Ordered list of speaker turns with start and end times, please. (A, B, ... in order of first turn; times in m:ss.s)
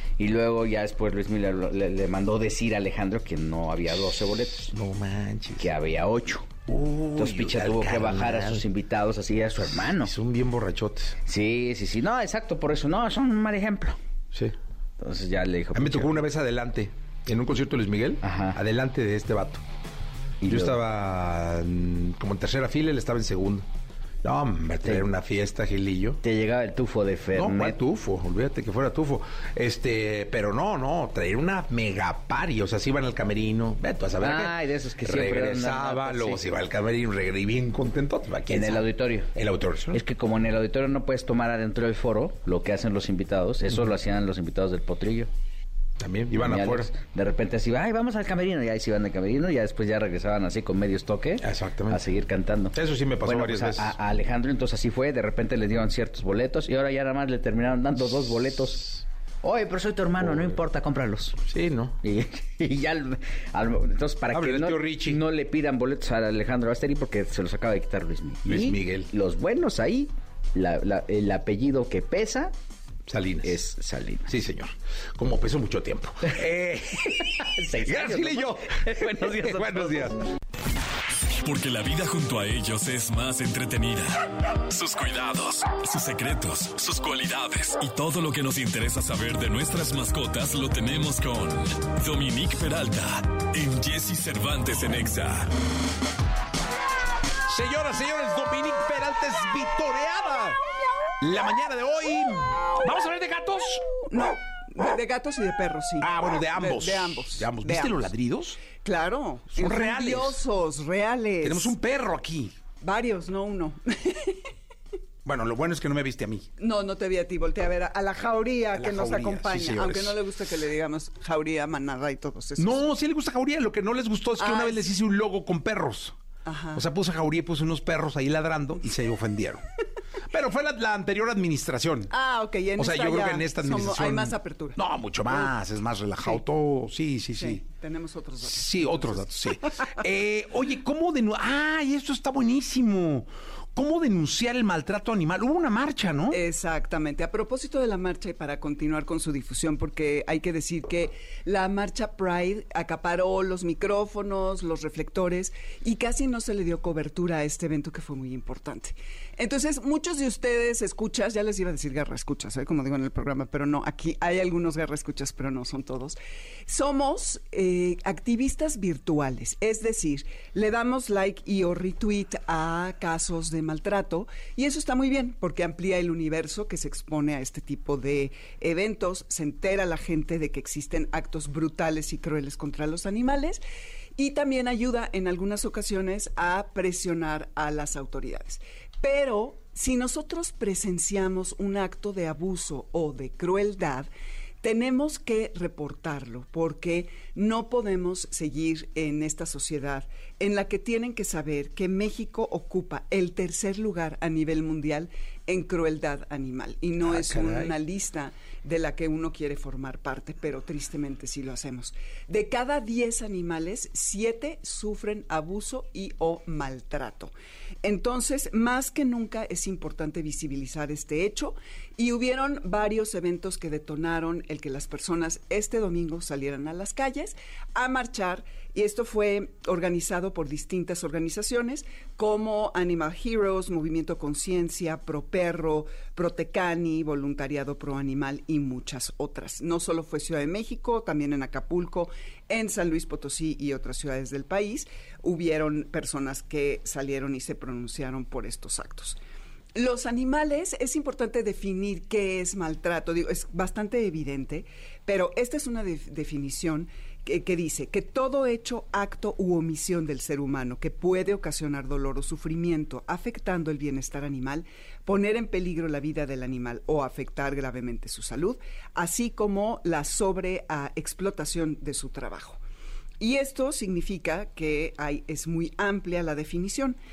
0:00.2-0:04.7 A
0:04.7-0:05.7 B
0:05.6-0:06.5 A
0:06.7-0:08.6 B
0:07.2-0:10.1 A
0:09.7-0:11.2 B
0:11.3-0:14.0 A
0:15.0-0:16.2 A
0:15.7-0:19.6 B
0:18.2-0:18.6 A
0:20.4-0:20.8 A
0:20.4-0:23.7 B
0:24.2-0:26.2 B
0:26.2-0:27.8 A
0:27.3-0:40.0 B
0:34.2-0:36.4 A
0:38.5-0:39.3 A
0:39.9-0:45.3 A
0:46.0-0:46.9 B
0:46.3-1:01.4 A
0:51.4-0:52.0 B
0:52.7-0:53.9 B
1:00.2-1:00.5 B
1:01.5-1:02.0 B
1:02.0-1:12.5 A
1:04.3-1:05.2 B
1:08.4-1:09.1 B
1:13.1-1:13.6 B
1:13.4-1:14.3 A
1:14.3-1:20.2 B
1:17.4-1:20.0 A
1:21.4-1:35.5 C
1:37.5-1:40.6 B
1:41.2-1:43.8 B
1:44.1-1:48.1 D
1:46.0-1:48.6 B
1:48.7-1:51.8 D
1:49.5-1:50.4 B
1:51.4-1:52.5 B
1:52.8-1:54.4 D
1:55.2-1:56.5 B
1:56.6-2:02.8 D
1:58.7-2:00.2 B
2:02.6-2:06.2 B
2:04.4-2:04.8 D
2:06.4-2:06.8 D
2:06.7-2:09.6 B
2:10.3-2:12.1 B
2:12.1-2:14.8 D
2:12.8-2:17.6 B
2:17.4-2:19.9 D
2:18.4-2:26.4 B
2:26.3-3:03.6 D
3:04.2-3:14.1 D
3:14.6-3:37.3 D
3:27.0-3:27.8 B
3:37.8-4:09.2 D
4:09.8-4:32.6 D
4:33.2-4:37.0 D